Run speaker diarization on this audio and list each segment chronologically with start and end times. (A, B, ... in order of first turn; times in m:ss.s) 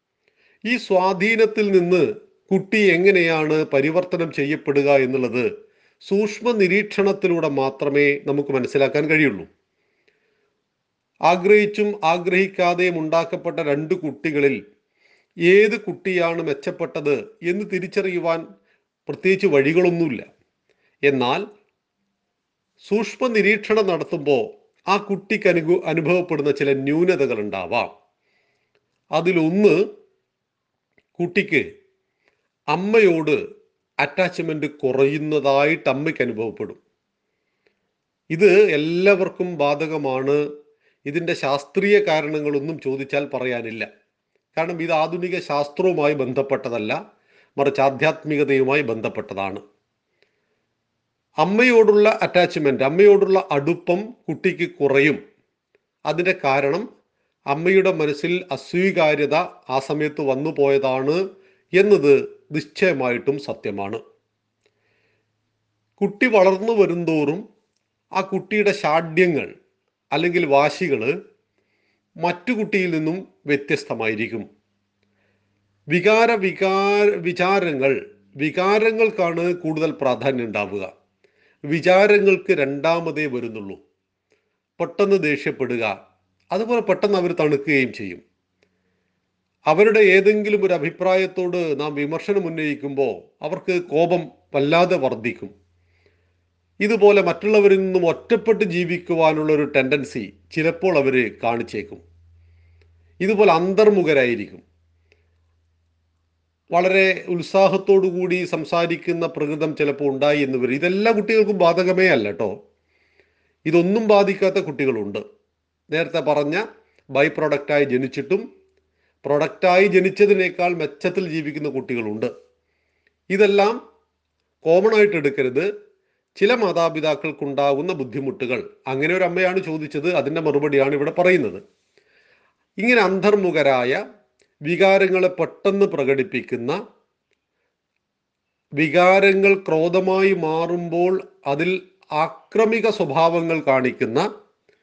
0:00.7-0:05.4 A
0:06.0-0:09.5 A
0:11.3-0:14.6 A
0:15.5-0:18.4 A
0:19.1-0:20.3 A
0:21.1-0:21.4 A
0:22.8-0:27.9 A
0:29.2-0:29.8 A
0:31.2-0:31.6 A
0:32.7-0:33.4 A
0:34.0-0:36.8 A
0:38.3-0:40.4 A
0:41.1-0:43.9 A
0:44.5-0:47.0 A
0:47.6-0:49.6 A
0:51.4-0:55.2 A
0:56.1-0:56.8 A
0:57.5-1:01.2 A
1:01.8-1:04.0 A
1:06.0-1:07.4 A
1:08.2-1:09.5 A
1:10.1-1:11.1 A
1:12.2-1:14.4 A
1:15.9-1:20.9 A
1:21.7-1:23.8 A
1:24.8-1:25.9 A
1:26.5-1:28.2 A
1:29.7-1:35.5 A
1:36.8-1:42.0 A
1:43.2-1:44.6 A
1:46.7-1:52.5 A
1:53.7-1:55.2 A
1:55.9-1:56.6 A
1:57.1-1:58.4 A
1:59.2-2:02.3 A
2:03.3-2:03.8 A
2:04.6-2:05.7 A
2:06.4-2:11.6 A
2:12.8-2:14.0 A
2:14.7-2:16.8 A
2:18.8-2:24.2 A